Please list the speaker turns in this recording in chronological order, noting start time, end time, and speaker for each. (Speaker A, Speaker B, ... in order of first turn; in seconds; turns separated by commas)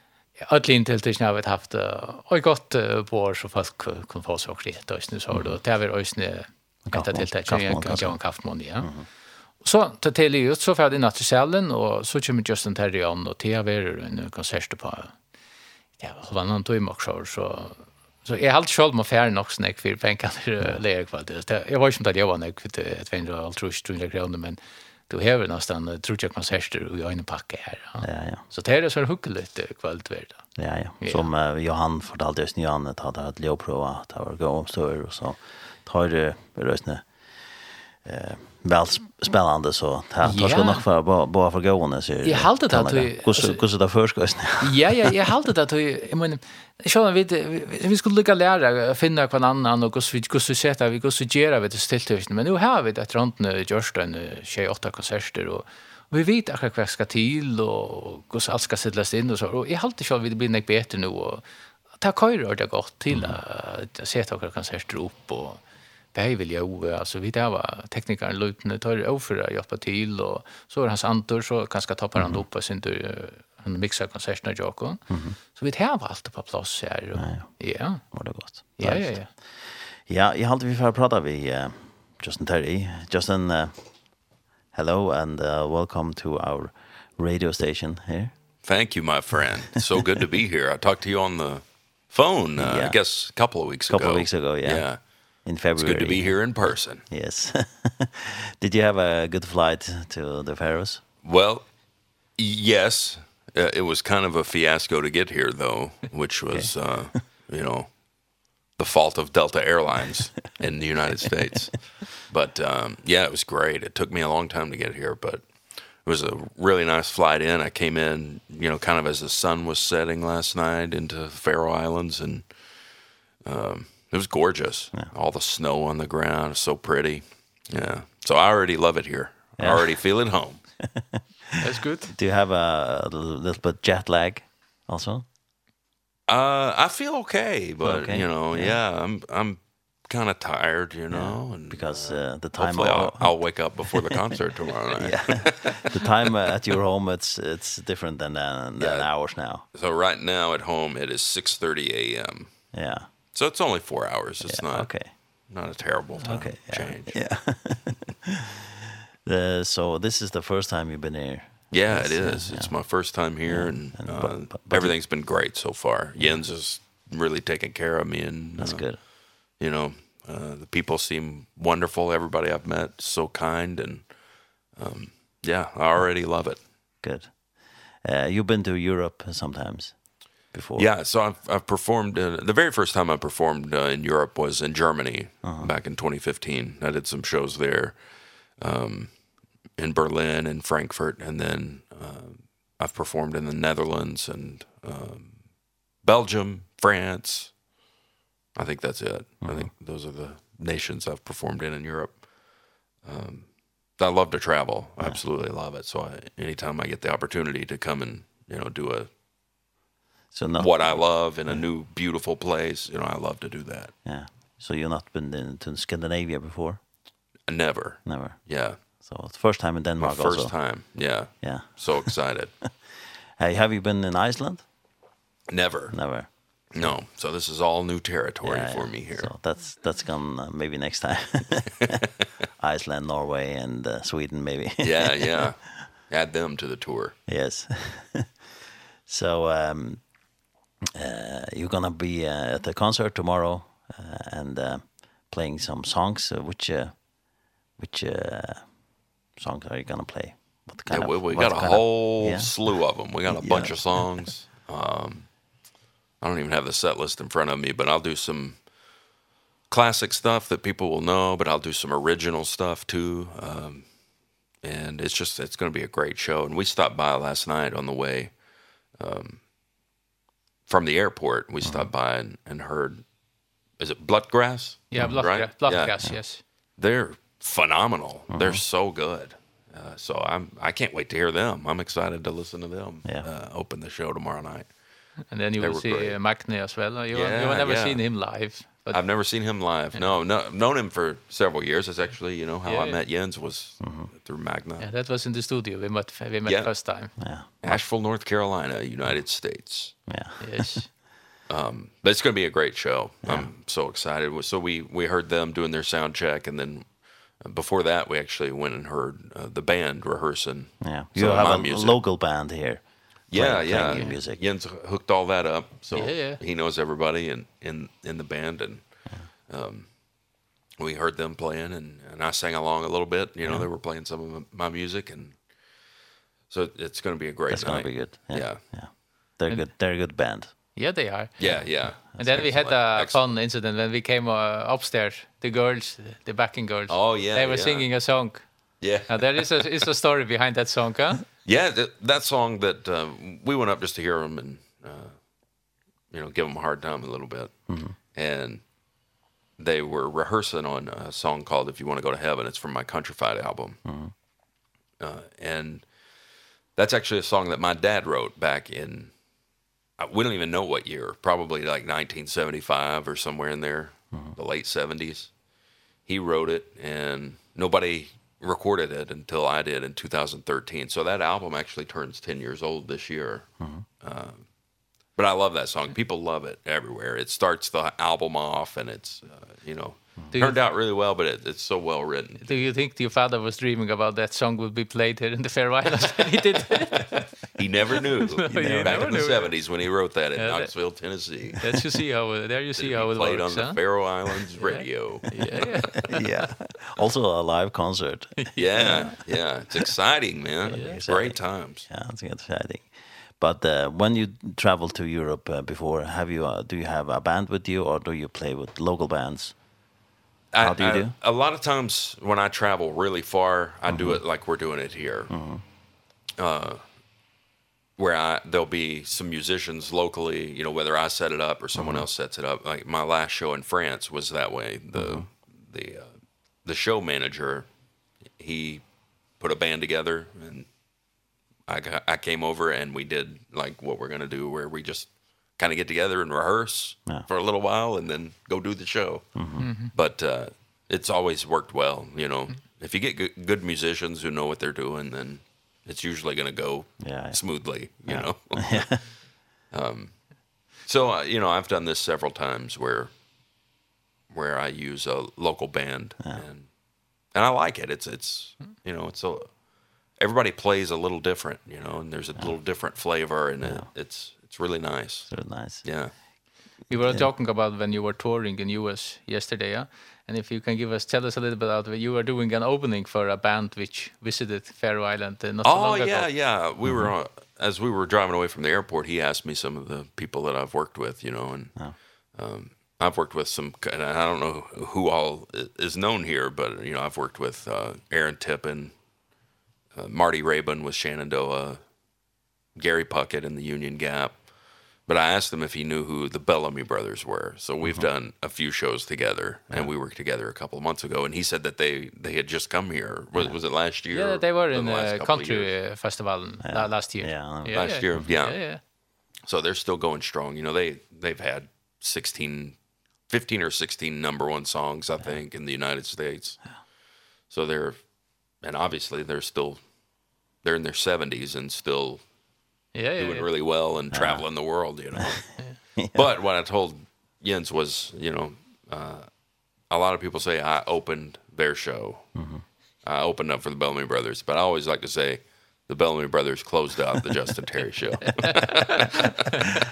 Speaker A: 0.4-8.9, Speaker B: 5.3-5.6, Speaker B: 6.9-8.2, Speaker A: 9.6-15.1, Speaker A: 16.0-31.3, Speaker B: 28.0-28.4, Speaker B: 30.6-37.0, Speaker B: 38.0-45.1, Speaker A: 40.2-40.8, Speaker A: 42.2-43.6, Speaker A: 44.6-65.6, Speaker B: 63.1-63.4, Speaker A: 66.1-79.3, Speaker B: 72.2-72.5, Speaker B: 75.1-75.4, Speaker B: 77.1-84.2, Speaker B: 84.7-88.3, Speaker C: 88.6-97.0, Speaker B: 92.6-93.0, Speaker B: 93.9-101.0, Speaker C: 101.2-101.8, Speaker C: 102.3-108.0, Speaker C: 108.7-122.5, Speaker C: 123.4-130.6, Speaker B: 129.6-130.0, Speaker B: 130.8-131.2, Speaker A: 131.6-132.1, Speaker B: 132.1-135.2, Speaker C: 136.3-145.9, Speaker B: 137.8-138.8, Speaker B: 141.1-144.0, Speaker B: 145.0-149.6, Speaker C: 148.8-152.7, Speaker B: 152.7-153.1, Speaker C: 153.3-157.4, Speaker B: 154.4-155.5, Speaker B: 156.2-158.1, Speaker B: 159.2-164.9, Speaker C: 161.7-174.1, Speaker B: 166.2-166.4, Speaker B: 168.6-169.0, Speaker C: 174.7-176.7, Speaker B: 177.0-180.9, Speaker C: 180.8-189.2, Speaker B: 185.4-185.7, Speaker C: 189.7-195.4, Speaker C: 195.9-197.6, Speaker C: 198.5-202.2, Speaker B: 199.4-199.7, Speaker C: 203.0-209.1, Speaker B: 210.3-211.6, Speaker C: 210.6-213.9, Speaker B: 214.0-216.8, Speaker C: 217.5-218.8, Speaker B: 218.1-220.6, Speaker C: 220.0-222.5, Speaker B: 221.3-222.1, Speaker B: 222.9-224.6, Speaker C: 225.5-229.3, Speaker B: 225.9-227.0, Speaker B: 228.4-231.9, Speaker B: 232.6-235.5, Speaker C: 234.8-237.2, Speaker B: 237.3-238.3, Speaker B: 239.1-240.2, Speaker B: 240.9-247.2, Speaker B: 247.7-248.8, Speaker B: 249.3-254.3, Speaker C: 250.9-255.3, Speaker C: 256.2-258.7, Speaker C: 259.7-263.9, Speaker C: 264.6-268.4, Speaker C: 268.9-269.4, Speaker C: 270.7-273.0, Speaker B: 271.6-271.9, Speaker C: 273.8-276.1, Speaker A: 274.9-276.4, Speaker B: 274.9-275.2, Speaker C: 276.7-284.7, Speaker B: 278.3-278.6, Speaker A: 285.3-289.0, Speaker C: 285.6-286.2, Speaker C: 287.1-288.1, Speaker C: 288.9-294.9, Speaker A: 292.6-293.0, Speaker B: 293.8-294.1, Speaker A: 294.8-297.2, Speaker C: 296.5-300.0, Speaker B: 297.2-297.8, Speaker B: 300.1-300.8, Speaker A: 300.4-300.9, Speaker C: 301.5-312.0, Speaker B: 303.2-303.5, Speaker B: 310.8-314.4, Speaker C: 313.3-319.9, Speaker A: 313.8-314.1, Speaker A: 315.9-316.4, Speaker C: 320.8-325.4, Speaker C: 326.5-328.8, Speaker B: 327.5-330.5, Speaker A: 330.7-341.3, Speaker C: 331.4-333.2, Speaker C: 336.9-338.2, Speaker C: 338.8-339.8, Speaker C: 341.4-345.2, Speaker C: 346.1-348.6, Speaker B: 347.7-347.9, Speaker C: 349.6-353.8, Speaker B: 353.8-354.1, Speaker C: 355.0-355.9, Speaker C: 356.7-359.1, Speaker C: 360.0-365.3, Speaker C: 366.1-374.5, Speaker B: 373.6-373.8, Speaker C: 375.1-382.5, Speaker A: 380.3-380.6, Speaker A: 382.4-387.6, Speaker C: 387.6-391.6, Speaker A: 388.2-390.7, Speaker B: 388.5-389.2, Speaker A: 391.6-396.4, Speaker C: 392.8-396.1, Speaker B: 396.1-399.1, Speaker A: 398.4-399.2, Speaker C: 398.6-401.9, Speaker B: 400.7-409.6, Speaker C: 410.5-415.3, Speaker B: 410.6-411.1, Speaker B: 413.9-414.2, Speaker B: 415.3-415.6, Speaker C: 416.4-416.8, Speaker C: 418.0-426.1, Speaker B: 421.7-422.0, Speaker B: 424.9-425.3, Speaker C: 426.6-427.7, Speaker C: 428.4-430.7, Speaker C: 431.7-453.1, Speaker B: 439.4-439.7, Speaker A: 439.6-439.9, Speaker B: 447.0-448.9, Speaker C: 454.3-456.7, Speaker C: 457.3-459.6, Speaker C: 460.1-466.1, Speaker B: 463.6-463.9, Speaker B: 465.3-466.2, Speaker A: 466.9-476.5, Speaker B: 466.9-467.3, Speaker C: 475.6-489.0, Speaker B: 476.8-477.1, Speaker C: 489.9-491.9, Speaker C: 492.7-494.5, Speaker C: 495.0-505.8, Speaker A: 504.1-508.8, Speaker B: 506.6-508.3, Speaker C: 507.7-508.7, Speaker C: 509.4-516.8, Speaker C: 517.5-519.9, Speaker C: 520.5-522.3, Speaker A: 522.9-523.5, Speaker C: 523.1-532.4, Speaker B: 524.1-526.2, Speaker B: 532.3-532.6, Speaker C: 533.0-539.3